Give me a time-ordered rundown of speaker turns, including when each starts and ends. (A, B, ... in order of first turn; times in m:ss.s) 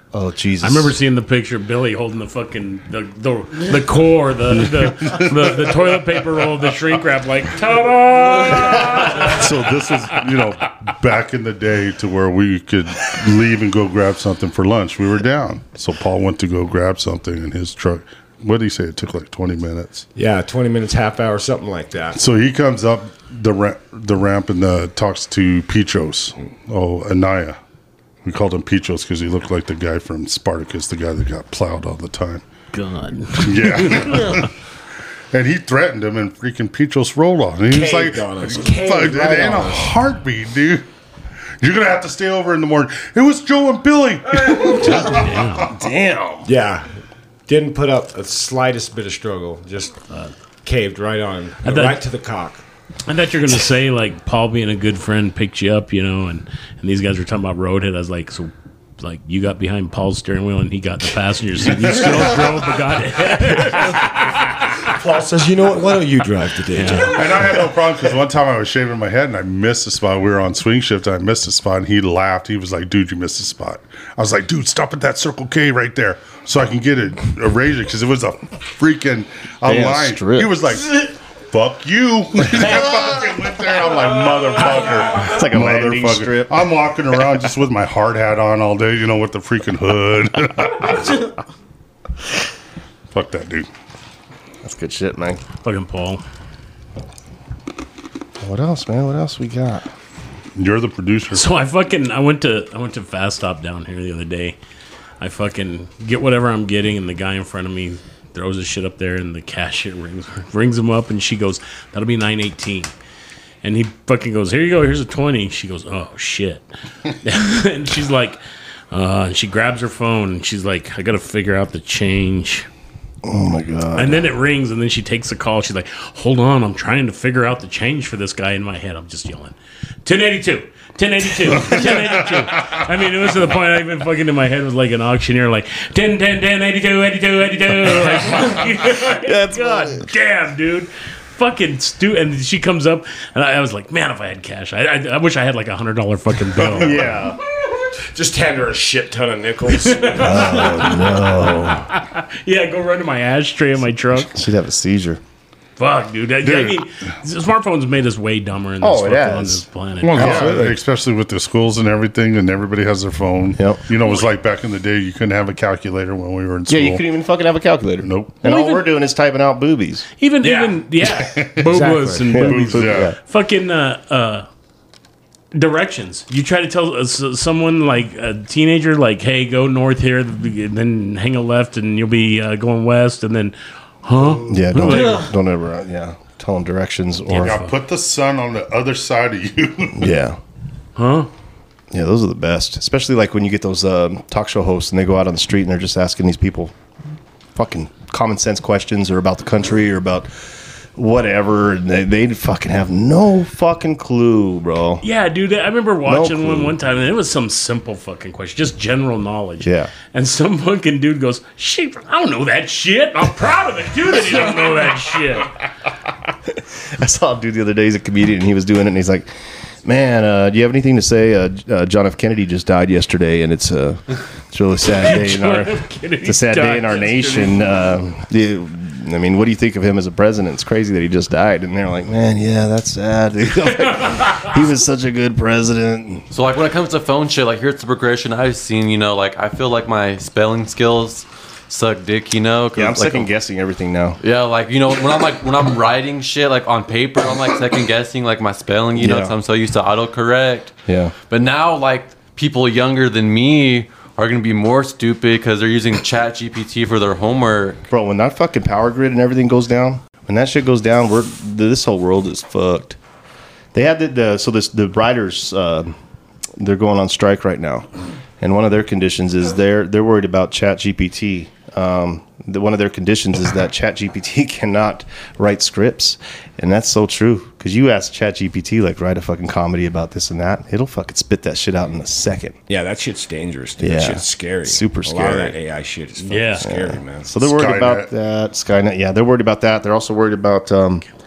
0:00.1-0:01.0 A
0:00.6-0:09.4 B
0:04.6-0:06.0 C
0:08.6-0:20.0 C
0:20.1-0:22.2 D
0:22.1-0:27.6 C
0:28.2-0:32.4 C
0:32.7-0:34.5 B
0:33.3-0:34.5 C
0:35.3-0:40.8 C
0:37.7-0:39.9 D
0:41.6-0:45.8 C
0:44.8-0:45.7 B
0:45.7-0:46.4 A
0:46.4-0:46.9 D
0:47.5-0:50.0 D
0:50.6-0:52.6 D
0:51.6-0:52.0 B
0:53.0-1:04.1 B
1:01.7-1:02.7 D
1:03.9-1:04.2 D
1:04.8-1:07.4 D
1:06.7-1:07.1 B
1:07.0-1:31.3 C
1:19.6-1:20.6 A
1:25.1-1:27.2 A
1:33.1-1:33.7 C
1:34.6-1:35.4 A
1:35.6-1:36.2 B
1:38.4-1:39.9 A
1:40.5-1:41.5 C
1:41.3-1:44.6 B
1:45.2-1:52.9 B
1:53.6-1:58.4 B
1:58.9-2:02.7 B
2:03.2-2:04.3 A
2:04.0-2:27.1 B
2:18.3-2:20.1 A
2:26.7-2:27.4 A
2:28.1-2:31.0 D
2:29.7-2:34.3 B
2:30.2-2:31.8 A
2:34.3-2:35.2 A
2:35.8-2:40.5 B
2:36.4-2:36.8 C
2:38.8-2:40.7 A
2:40.0-2:47.0 C
2:40.1-2:40.8 D
2:43.6-2:43.8 A
2:44.0-2:44.3 B
2:46.7-2:50.0 A
2:48.0-2:48.4 C
2:48.4-2:48.8 B
2:50.2-2:54.5 B
2:50.4-2:50.8 D
2:51.2-2:51.6 C
2:51.6-2:52.5 D
2:52.3-2:53.2 A
2:52.4-2:53.1 C
2:55.5-3:05.3 B
3:04.4-3:07.6 A
3:07.3-3:07.7 B
3:07.4-3:10.1 C
3:10.0-3:10.4 A
3:11.0-3:11.3 B
3:11.9-3:16.7 A
3:17.5-3:25.0 A
3:25.0-3:35.5 B
3:26.0-3:26.7 A
3:29.6-3:29.9 A
3:36.5-3:39.3 A
3:39.8-3:56.3 A
3:45.0-3:47.7 B
3:56.3-4:03.3 E
4:02.7-4:04.2 A
4:04.2-4:10.7 E
4:09.0-4:09.3 A
4:10.9-4:11.1 A
4:11.3-4:17.8 E
4:17.9-4:23.0 A
4:23.7-4:26.0 A
4:26.6-4:27.9 A
4:28.4-4:42.6 A
4:42.7-4:47.3 D
4:43.8-4:45.6 A
4:46.2-4:46.6 B
4:46.6-4:51.0 A
4:47.4-4:48.1 C